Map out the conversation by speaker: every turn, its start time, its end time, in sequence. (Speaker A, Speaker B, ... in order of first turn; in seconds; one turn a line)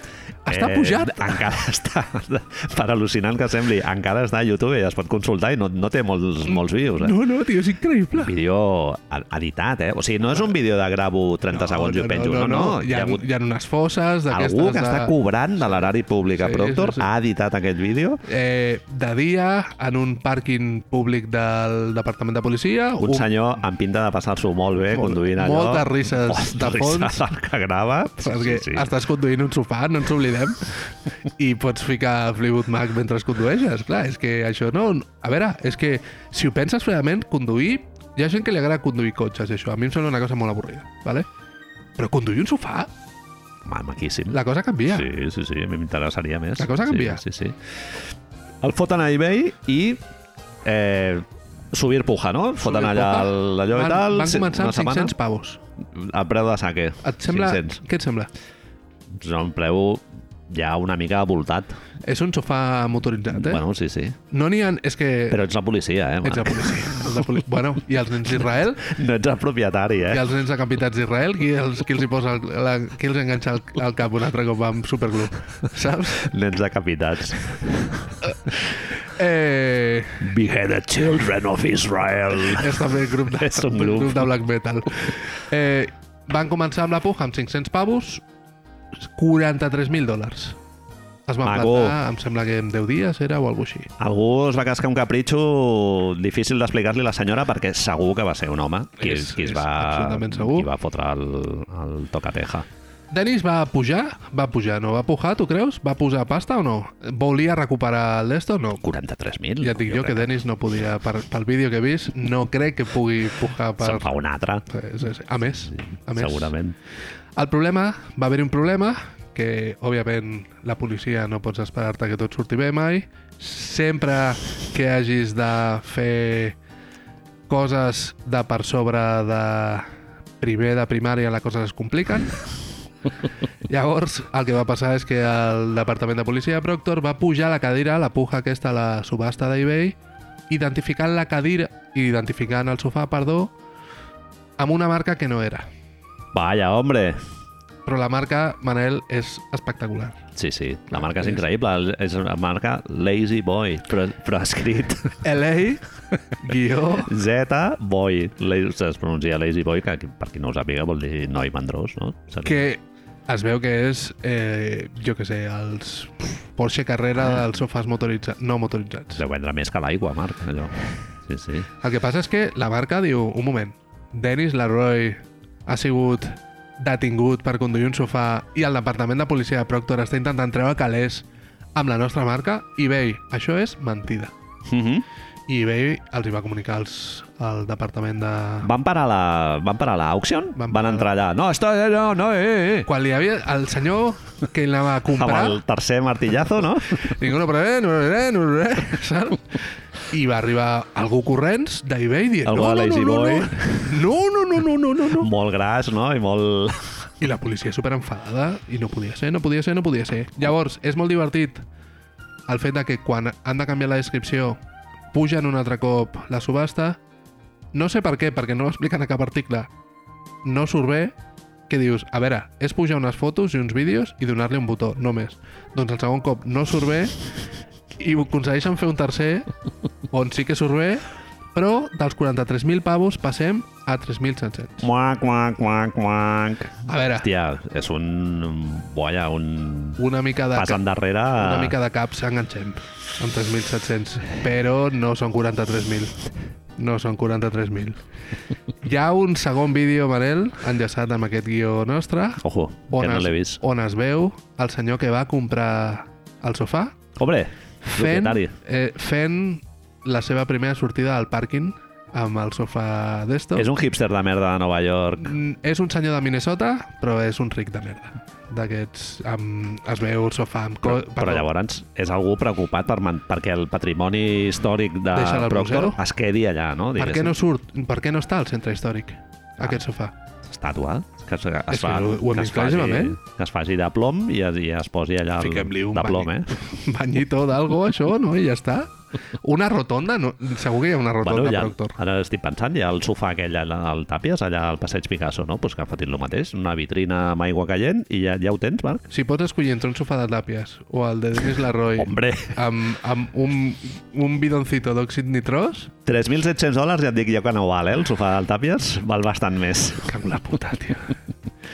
Speaker A: 0.5-1.5
Speaker B: 0.5-7.2
Speaker A: 7.0-8.3
Speaker B: 8.2-13.2
Speaker A: 11.5-15.1
Speaker B: 14.3-18.2
Speaker A: 16.4-17.1
Speaker A: 18.2-23.3
Speaker B: 23.0-28.9
Speaker A: 24.9-27.2
Speaker A: 28.2-41.3
Speaker A: 42.0-42.9
Speaker B: 43.6-47.7
Speaker A: 44.3-45.1
Speaker A: 46.6-47.2
Speaker B: 48.6-50.0
Speaker B: 50.6-55.1
Speaker A: 52.6-55.6
Speaker B: 55.8-57.8
Speaker A: 57.0-58.3
Speaker B: 59.1-61.8
Speaker A: 62.0-63.6
Speaker B: 63.3-64.2
Speaker A: 64.3-65.4
Speaker B: 65.3-67.3
Speaker A: 66.2-68.9
Speaker B: 68.8-70.3
Speaker A: 70.1-76.3
Speaker B: 76.2-78.1
Speaker A: 78.3-80.3
Speaker B: 80.2-84.3
Speaker A: 82.5-88.2
Speaker A: 89.0-90.6
Speaker A: 91.3-93.9
Speaker B: 91.4-92.0
Speaker B: 94.0-102.7
Speaker A: 99.0-100.7
Speaker A: 103.1-108.8
Speaker B: 108.8-110.3
Speaker A: 109.6-114.1
Speaker B: 113.8-114.7
Speaker A: 114.7-116.5
Speaker B: 115.7-116.8
Speaker A: 117.4-126.6
Speaker A: 127.5-132.4
Speaker A: 133.7-140.0
Speaker A: 140.5-143.5
Speaker A: 144.6-145.7
Speaker B: 146.3-147.2
Speaker A: 147.9-150.2
Speaker B: 150.4-155.2
Speaker A: 155.2-155.8
Speaker A: 156.4-157.1
Speaker B: 157.0-162.6
Speaker A: 162.4-169.2
Speaker B: 169.2-171.7
Speaker A: 171.8-184.3
Speaker B: 184.7-185.1
Speaker A: 185.5-188.7
Speaker B: 188.6-192.9
Speaker A: 190.6-191.1
Speaker A: 192.9-195.6
Speaker B: 195.1-197.1
Speaker A: 196.9-199.6
Speaker A: 200.1-205.3
Speaker B: 202.4-204.0
Speaker B: 205.2-207.1
Speaker A: 207.2-211.6
Speaker A: 212.5-214.6
Speaker A: 215.1-217.0
Speaker A: 217.7-219.7
Speaker A: 220.4-221.1
Speaker A: 221.7-227.2
Speaker A: 228.0-229.5
Speaker A: 230.1-234.8
Speaker B: 234.8-240.0
Speaker A: 236.9-237.3
Speaker A: 240.0-240.8
Speaker B: 240.6-241.8
Speaker A: 241.3-246.2
Speaker A: 246.8-248.0
Speaker A: 248.8-257.0
Speaker B: 252.4-253.6
Speaker B: 257.2-258.5
Speaker A: 257.8-263.7
Speaker B: 263.6-265.4
Speaker A: 265.2-271.5
Speaker B: 270.8-277.4
Speaker A: 275.1-276.0
Speaker A: 277.0-280.1
Speaker B: 280.4-286.5
Speaker A: 281.7-283.2
Speaker A: 285.4-292.0
Speaker B: 291.2-299.1
Speaker A: 299.1-305.9
Speaker B: 302.0-302.6
Speaker B: 306.1-310.1
Speaker A: 310.1-311.1